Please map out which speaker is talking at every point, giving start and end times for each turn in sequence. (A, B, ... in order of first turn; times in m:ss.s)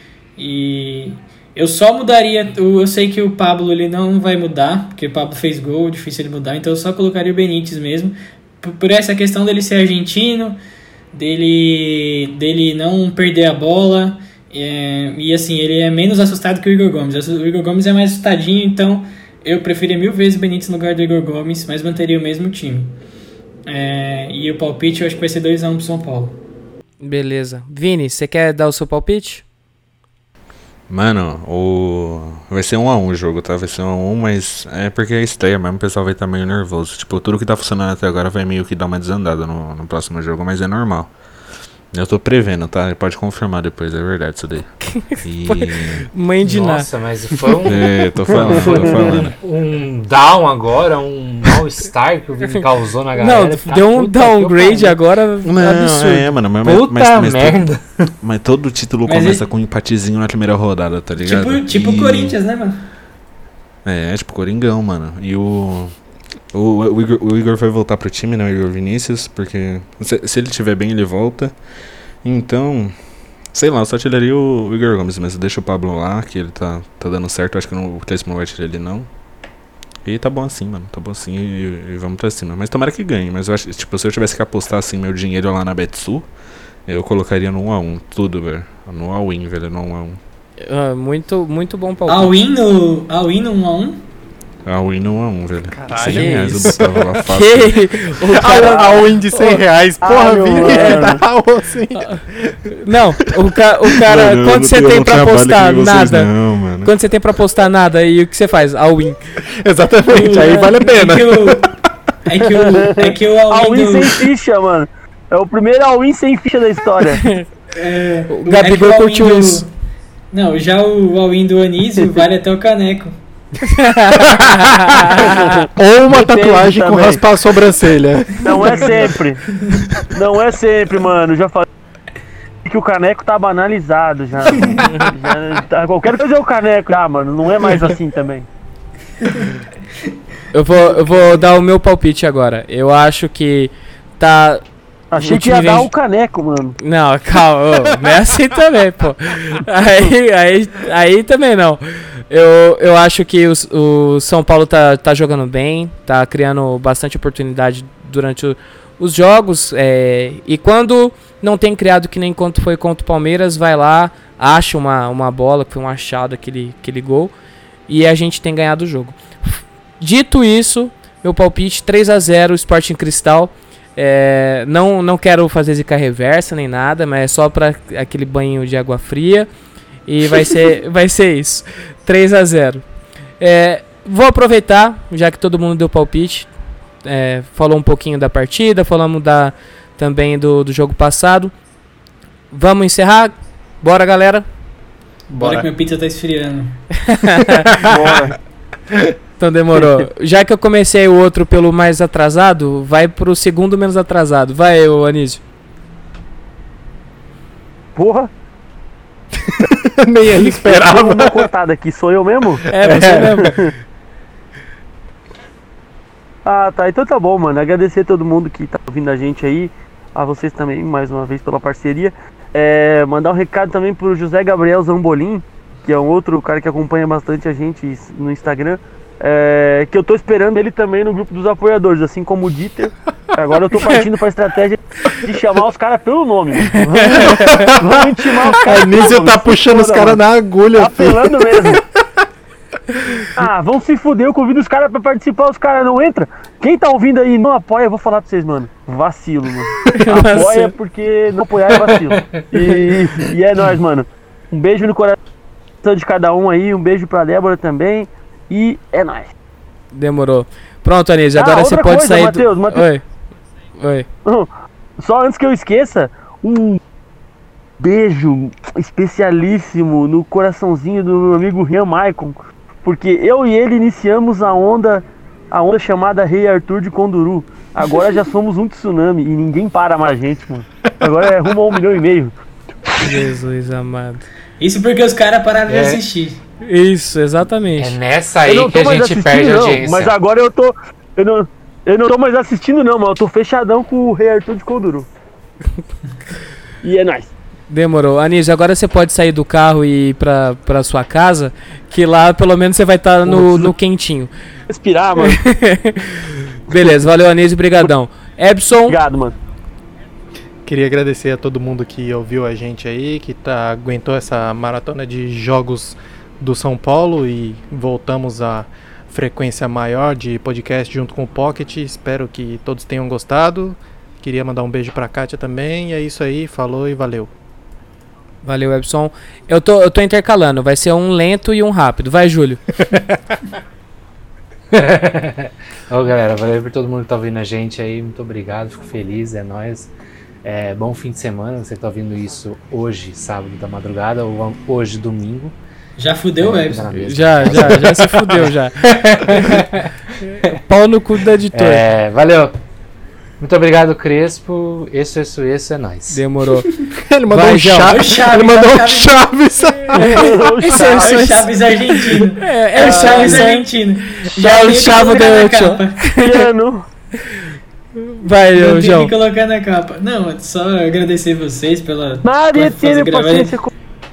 0:00.4-0:10.6 A
0:11.1-0:23.0 A
0:23.7-0:26.4 A
0:27.0-0:29.4 B
0:30.9-0:41.1 C
0:41.9-0:46.1 C
0:44.9-0:46.9 B
0:46.4-0:55.0 D
0:47.6-0:49.4 C
0:48.8-0:49.2 E
0:53.2-0:56.3 B
0:55.4-0:57.6 C
0:56.6-0:58.1 D
0:58.2-1:02.4 C
0:59.1-0:59.4 A
1:01.2-1:02.9 A
1:03.8-1:05.9 C
1:06.5-1:11.5 C
1:12.2-1:13.0 C
1:13.5-1:19.1 C
1:20.0-1:26.3 C
1:26.9-1:30.2 C
1:30.6-1:32.3 B
1:32.1-1:34.0 A
1:34.7-1:37.9 C
1:35.7-1:37.1 F
1:36.0-1:39.6 B
1:38.3-1:43.0 F
1:38.6-1:39.0 E
1:40.0-1:41.2 E
1:40.7-1:41.2 B
1:42.7-1:46.3 B
1:44.0-1:46.9 C
1:46.8-1:49.2 B
1:49.6-1:51.7 F
1:50.1-1:51.7 A
1:52.3-1:54.3 A
1:52.4-1:57.2 E
1:57.8-1:59.7 A
1:58.3-1:59.6 B
2:00.3-2:03.2 A
2:03.7-2:05.5 B
2:04.3-2:05.1 F
2:05.1-2:07.2 E
2:05.6-2:09.0 F
2:08.4-2:09.4 E
2:10.1-2:11.7 E
2:12.6-2:18.5 E
2:20.5-2:24.6 B
2:20.9-2:21.2 E
2:25.1-2:26.8 E
2:25.2-2:25.9 B
2:26.8-2:47.3 B
2:47.9-2:59.5 B
3:00.1-3:02.8 B
3:03.4-3:06.5 B
3:07.0-3:11.5 B
3:12.5-3:14.4 B
3:15.3-3:15.7 D
3:15.3-3:16.8 A
3:17.1-3:17.8 B
3:17.8-3:18.4 E
3:19.4-3:25.4 B
3:28.0-3:28.3 E
3:29.4-3:31.5 F
3:30.4-3:32.7 E
3:32.7-3:33.6 B
3:32.8-3:33.5 F
3:33.5-3:33.7 E
3:36.4-4:00.2 E
3:57.1-4:01.8 F
4:00.8-4:01.8 E
4:03.4-4:15.2 E
4:10.0-4:10.7 B
4:11.7-4:12.5 D
4:15.8-4:19.3 E
4:19.9-4:23.0 B
4:21.4-4:22.9 E
4:23.8-4:24.1 B
4:24.2-4:26.8 E
4:27.8-4:42.3 E
4:43.0-4:44.2 B
4:44.6-4:46.4 A
4:45.7-4:46.0 D
4:46.6-4:48.0 B
4:47.8-4:50.1 D
4:48.4-4:55.1 E
4:56.8-4:57.3 E
4:57.7-5:04.3 B
5:03.2-5:03.7 E
5:04.7-5:05.4 E
5:05.2-5:06.2 B
5:06.7-5:09.0 B
5:08.9-5:09.4 E
5:10.6-5:27.3 F
5:28.4-5:32.6 B
5:34.7-5:39.9 D
5:40.4-5:45.6 D
5:46.0-5:47.0 A
5:46.4-5:50.5 D
5:47.0-5:48.7 B
5:50.5-5:51.8 B
5:51.5-5:52.6 D
5:53.4-5:56.2 D
5:56.1-5:56.7 B
5:57.0-6:00.4 F
5:57.3-5:57.9 B
5:57.9-5:59.3 A
6:00.0-6:01.5 B
6:00.1-6:01.3 E
6:00.7-6:06.1 A
6:02.4-6:03.7 B
6:02.8-6:03.5 E
6:04.2-6:06.4 B
6:06.2-6:06.9 E
6:08.1-6:09.1 B
6:08.6-6:13.6 A
6:12.2-6:13.7 E